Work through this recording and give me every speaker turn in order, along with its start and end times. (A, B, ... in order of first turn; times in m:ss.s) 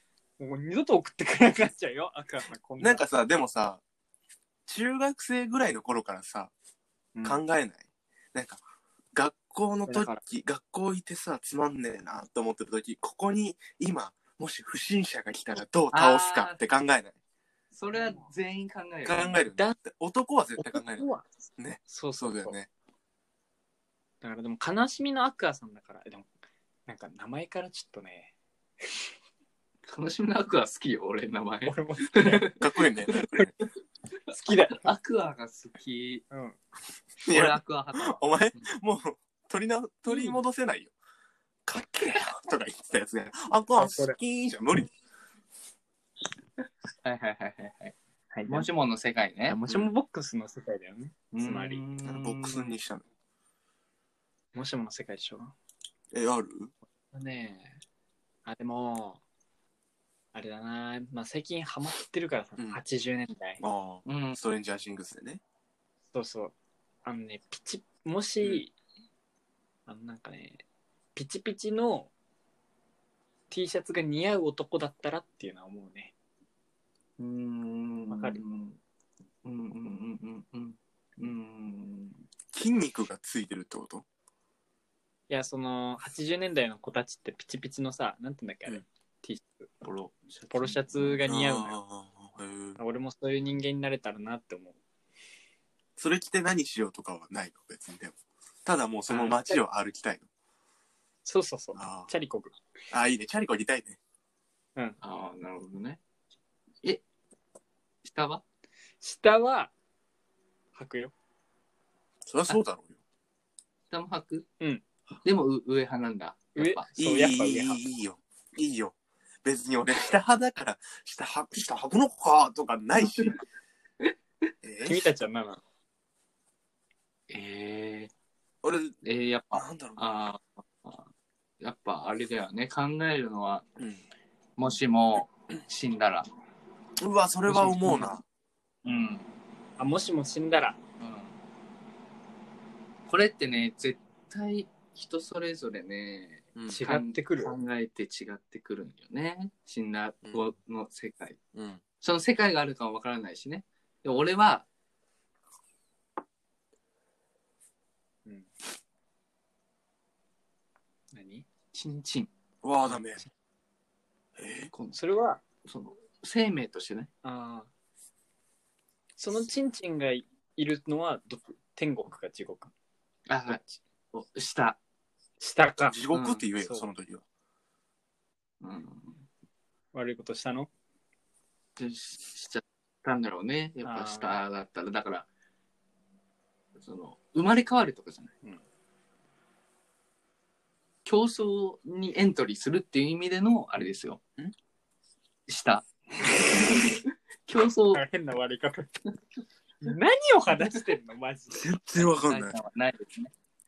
0:00.4-0:03.0 A
0:02.8-0:03.8 B
0:04.7-0:06.5 B
0:07.2-0:07.4 A
0:07.2-0:08.6 B
0:09.1-0:17.2 B
0:09.9-0:10.2 A
0:15.9-0:16.6 C
0:17.7-0:19.4 C
0:17.9-0:18.2 A
0:19.0-0:21.1 B
0:20.6-0:21.3 A
0:21.6-0:22.7 B
0:21.9-0:22.6 A
0:24.2-0:26.3 A
0:26.9-0:28.3 A
0:29.9-0:32.6 C
0:31.7-0:32.6 A
0:32.6-0:33.5 B
0:34.3-0:34.9 A
0:34.5-0:36.2 C
0:36.3-0:36.6 A
0:37.2-0:38.7 C
0:37.2-0:40.9 B
0:40.1-0:40.4 A
0:41.7-0:44.9 B
0:43.8-0:44.2 A
0:47.0-0:48.0 C
0:48.3-0:48.7 A
0:48.5-0:49.6 C
0:49.5-0:51.8 A
0:51.3-0:52.8 C
0:52.0-0:53.0 B
0:54.5-0:55.5 A
0:56.1-0:56.7 B
0:57.0-0:57.8 A
0:58.5-0:59.2 A
1:00.3-1:03.6 A
1:03.6-1:05.4 B
1:04.1-1:04.4 C
1:06.1-1:06.5 A
1:07.0-1:08.7 A
1:09.9-1:10.6 A
1:11.2-1:12.1 A
1:13.5-1:16.1 A
1:17.2-1:18.8 C
1:18.1-1:18.4 A
1:19.4-1:22.2 C
1:22.5-1:24.0 B
1:25.3-1:29.7 A
1:29.8-1:31.2 C
1:30.5-1:31.8 A
1:31.3-1:32.8 B
1:32.8-1:34.8 A
1:36.0-1:40.3 B
1:39.1-1:39.6 A
1:41.2-1:42.5 A
1:41.8-1:42.1 B
1:42.9-1:44.0 B
1:45.0-1:46.0 C
1:48.0-1:48.4 C
1:49.0-1:49.7 A
1:50.8-1:51.1 A
1:52.2-1:53.0 B
1:53.9-1:54.5 C
1:55.2-1:57.0 C
1:56.6-1:57.8 A
1:57.0-2:03.4 B
2:03.0-2:03.4 C
2:04.6-2:05.0 B
2:04.8-2:05.6 A
2:07.3-2:08.1 C
2:08.6-2:09.0 B
2:09.0-2:11.1 C
2:09.5-2:10.0 B
2:11.6-2:13.7 C
2:14.6-2:16.3 C
2:17.0-2:18.2 B
2:17.5-2:18.1 C
2:18.8-2:19.3 C
2:19.8-2:20.8 A
2:21.0-2:21.3 C
2:23.1-2:31.4 C
2:26.6-2:26.8 B
2:26.7-2:27.5 A
2:31.5-2:31.8 B
2:32.0-2:34.7 C
2:41.1-2:41.5 A
2:41.7-2:42.3 C
2:42.6-2:43.2 B
2:44.4-2:44.7 B
2:44.7-2:47.1 C
2:45.0-2:45.4 A
2:47.2-2:47.7 A
2:49.2-2:52.7 A
2:53.3-2:53.6 C
2:54.1-2:54.8 C
2:55.4-2:56.0 A
2:55.9-2:57.2 B
2:56.1-2:56.4 C
2:56.6-2:56.9 A
2:58.6-2:59.2 C
2:59.9-3:00.7 A
3:01.8-3:05.3 C
3:03.8-3:04.4 A
3:06.8-3:08.4 C
3:11.0-3:14.2 C
3:15.5-3:18.0 C
3:17.9-3:18.9 A
3:19.8-3:21.7 A
3:21.5-3:22.6 B
3:22.0-3:23.3 C